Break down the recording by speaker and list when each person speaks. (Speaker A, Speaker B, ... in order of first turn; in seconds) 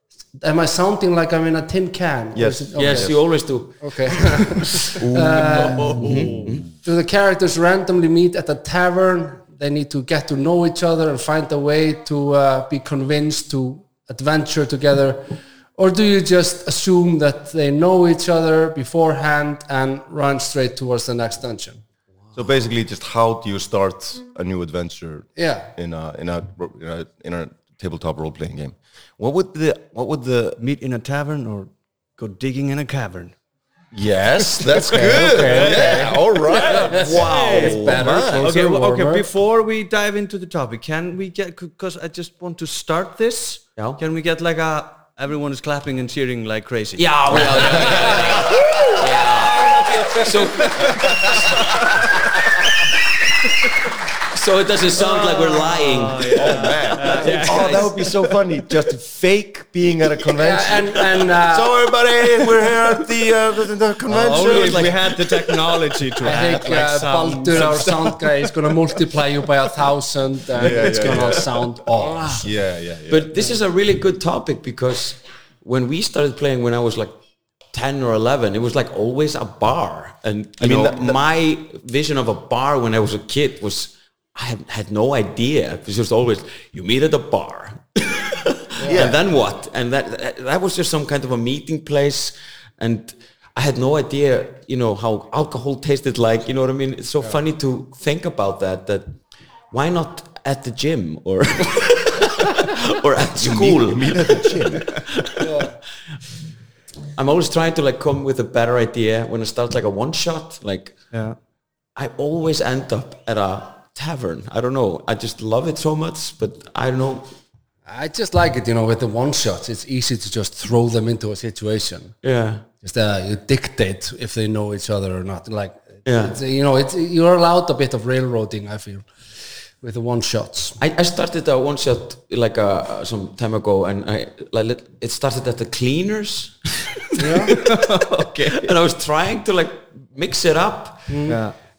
Speaker A: 0.4-3.1, 3.8-6.1, 6.8-21.8, 25.4-25.7, 34.9-39.3, 60.4-61.8, 66.2-72.5, 88.8-89.1, 105.4-105.7, 117.8-122.2, 122.8-129.1, 129.8-130.8, 137.2-137.6, 141.1-141.4
Speaker B: 2.3-3.2, 4.7-6.6, 22.3-30.6, 33.9-37.2, 37.9-38.4, 51.0-51.6, 56.3-66.6, 70.5-73.3, 80.6-81.2, 88.8-89.2, 103.3-105.1
Speaker C: 2.8-4.4, 6.0-6.7, 35.9-38.5, 43.8-44.0, 47.0-52.4, 54.2-58.1, 64.2-65.1, 73.1-77.1, 77.7-99.1, 99.7-105.5, 107.1-111.0, 112.0-117.3, 122.2-122.7, 126.1-126.4, 130.8-141.2
Speaker D: 5.6-6.6, 30.6-33.3, 34.6-52.2, 55.0-57.9, 64.1-68.2, 111.1-111.4, 137.4-138.7, 141.3-141.6